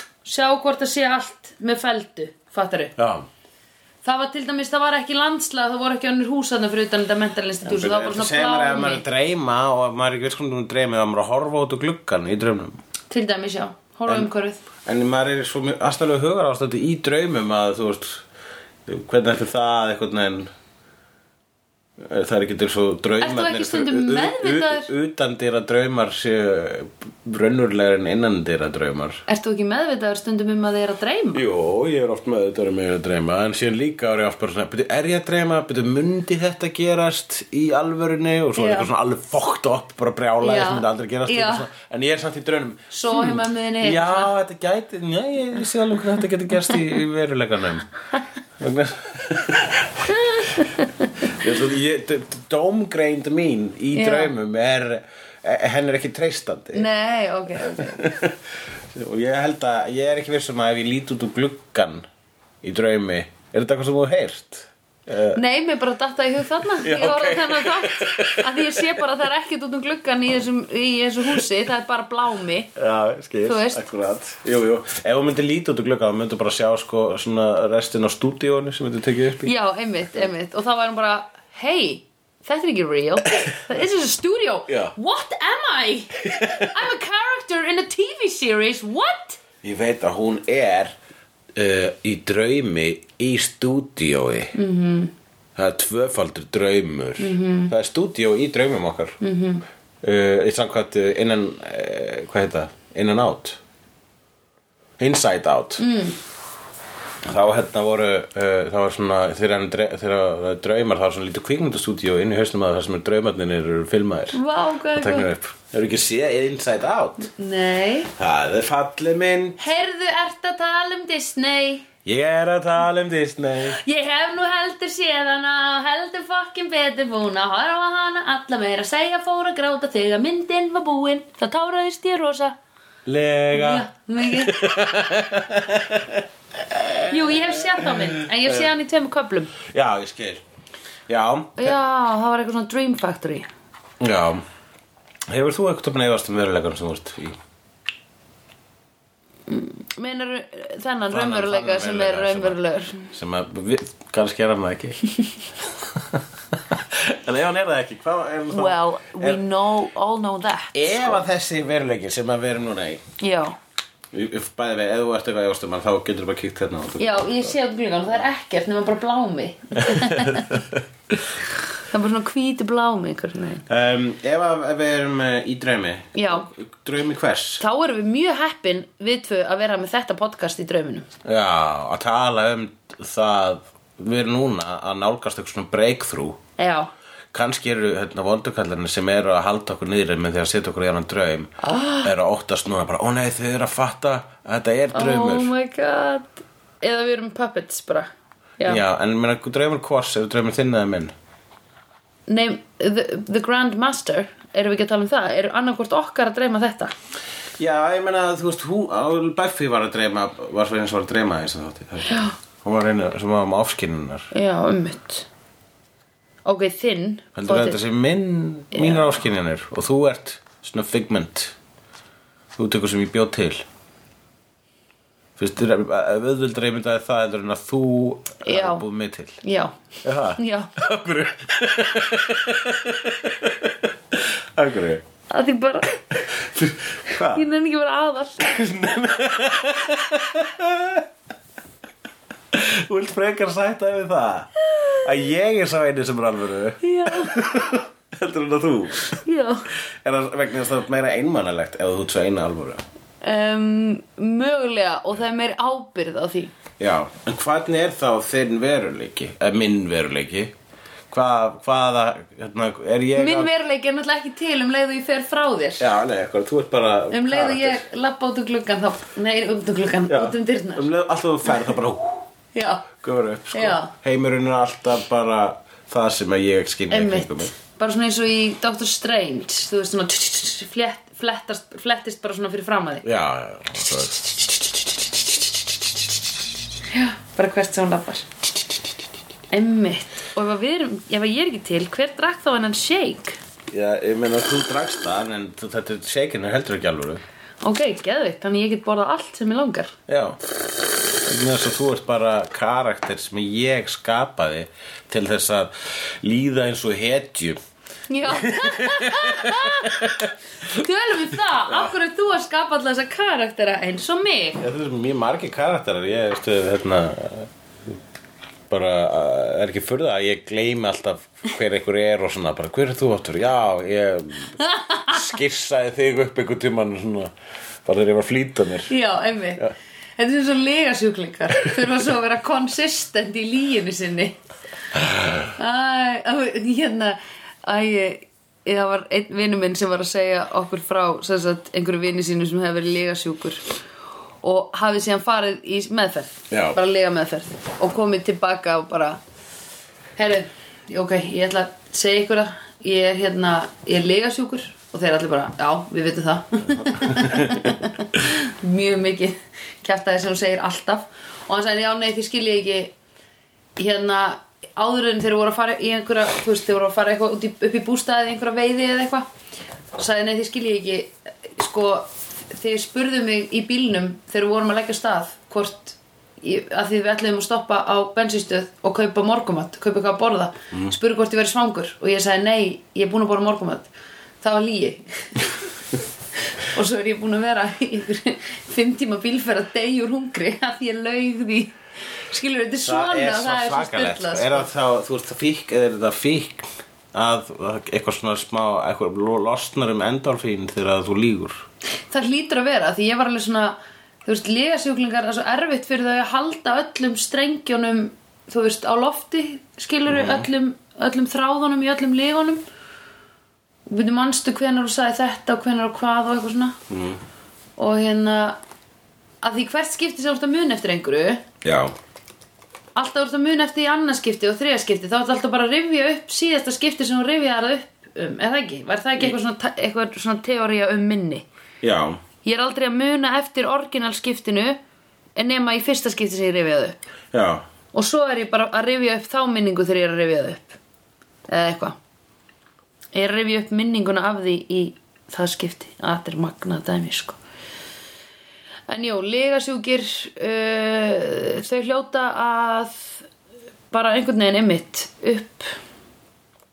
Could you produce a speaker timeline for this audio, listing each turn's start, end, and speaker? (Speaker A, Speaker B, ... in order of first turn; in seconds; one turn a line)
Speaker A: 0.2-2.9
Speaker B: 3.0-3.3
Speaker A: 4.0-9.0
Speaker B: 7.7-12.8
Speaker A: 13.1-14.6
Speaker B: 14.8-18.2
Speaker B: 18.9-20.5
Speaker B: 22.0-29.2
Speaker A: 23.2-24.9
Speaker A: 29.3-31.4
Speaker B: 31.3-47.9
Speaker A: 38.6-38.9
Speaker A: 40.4-41.7
Speaker A: 42.9-44.3
Speaker B: 48.6-50.7
Speaker A: 50.4-50.7
Speaker B: 51.2-56.9
Speaker A: 53.9-54.3
Speaker A: 56.7-58.0
Speaker B: 57.6-58.4
Speaker B: 58.9-62.1
Speaker B: 62.6-65.4
Speaker A: 65.3-72.7
Speaker B: 66.8-68.9
Speaker B: 72.8-79.5
Speaker A: 73.4-73.8
Speaker A: 79.4-89.4
Speaker B: 84.7-84.9
Speaker B: 86.3-86.7
Speaker B: 89.6-90.9
Speaker B: 91.5-94.5
Speaker A: 94.5-95.1
Speaker B: 95.6-99.2
Speaker A: 97.2-97.7
Speaker A: 99.2-99.7
Speaker B: 100.0-103.6
Speaker B: 105.0-105.8
Speaker A: 105.8-106.2
Speaker B: 107.2-114.4
Speaker A: 114.3-115.3
Speaker B: 114.9-117.3
Speaker A: 117.3-118.1
Speaker B: 118.2-119.6
Speaker A: 119.6-121.8
Speaker B: 122.0-123.8
Speaker A: 123.7-132.6
Speaker B: 133.1-138.7
Speaker A: 133.5-134.7
Speaker A: 137.1-139.6
Speaker B: 139.7-140.4
Speaker B: 141.1-141.8
Speaker A: 141.6-143.5
Speaker B: 144.0-144.4
Speaker B: 145.3-147.4
Speaker A: 149.5-153.1
Speaker B: 151.1-155.0
Speaker B: 155.7-159.4
Speaker A: 158.5-161.2
Speaker B: 160.7-163.0
Speaker A: 163.2-163.6
Speaker B: 164.1-167.6
Speaker A: 167.0-170.6
Speaker B: 169.8-170.4
Speaker A: 171.8-173.7
Speaker B: 173.7-177.6
Speaker A: 176.2-176.5
Speaker A: 177.6-181.1
Speaker B: 181.2-186.4
Speaker A: 186.6-186.9
Speaker B: 187.3-195.5
Speaker A: 191.6-192.1
Speaker A: 194.9-198.1
Speaker B: 198.7-201.1
Speaker A: 202.3-206.9
Speaker B: 207.6-214.3
Speaker A: 212.1-212.4
Speaker A: 214.3-215.3
Speaker A: 216.4-217.8
Speaker B: 217.4-221.6
Speaker A: 218.7-219.2
Speaker B: 222.6-223.6
Speaker B: 225.4-229.4
Speaker A: 228.4-228.8
Speaker A: 229.4-229.7
Speaker B: 230.0-235.0
Speaker A: 230.4-230.7
Speaker A: 235.3-236.0
Speaker B: 236.2-237.4
Speaker A: 237.2-238.5
Speaker B: 238.4-241.1
Speaker B: 242.5-249.1
Speaker A: 246.8-247.4
Speaker A: 249.2-249.7
Speaker B: 250.0-252.8
Speaker A: 253.2-256.5
Speaker B: 256.8-260.5
Speaker B: 261.1-263.5
Speaker A: 263.1-265.9
Speaker B: 265.8-267.8
Speaker A: 267.1-270.9
Speaker B: 270.1-272.3
Speaker A: 272.5-272.9
Speaker B: 273.0-277.5
Speaker A: 273.5-273.9
Speaker A: 276.9-283.1
Speaker B: 283.0-284.4
Speaker A: 286.9-288.3
Speaker A: 289.5-293.4
Speaker B: 293.7-297.2
Speaker A: 297.6-299.9
Speaker B: 300.1-300.4
Speaker B: 301.2-307.6
Speaker A: 308.1-310.1
Speaker B: 308.3-310.3
Speaker A: 310.6-314.6
Speaker B: 314.6-317.5
Speaker B: 318.7-324.6
Speaker A: 324.6-325.2
Speaker B: 325.1-327.3
Speaker B: 327.9-328.9
Speaker A: 328.9-334.4
Speaker A: 335.5-343.6
Speaker A: 344.4-349.2
Speaker B: 346.5-346.8
Speaker A: 350.2-362.9
Speaker A: 363.8-369.3
Speaker A: 370.0-383.9
Speaker A: 384.4-385.6
Speaker A: 386.6-394.7
Speaker B: 392.9-401.6
Speaker A: 402.1-412.6
Speaker B: 410.1-410.5
Speaker A: 413.9-416.8
Speaker B: 416.9-417.2
Speaker A: 417.8-418.6
Speaker A: 419.4-421.4
Speaker B: 421.6-421.9
Speaker A: 422.9-431.5
Speaker B: 431.8-432.2
Speaker A: 432.4-434.8
Speaker A: 435.4-437.0
Speaker B: 437.3-437.6
Speaker A: 437.9-440.8
Speaker A: 441.5-442.0
Speaker A: 443.1-447.4
Speaker A: 448.9-453.3
Speaker A: 453.9-455.7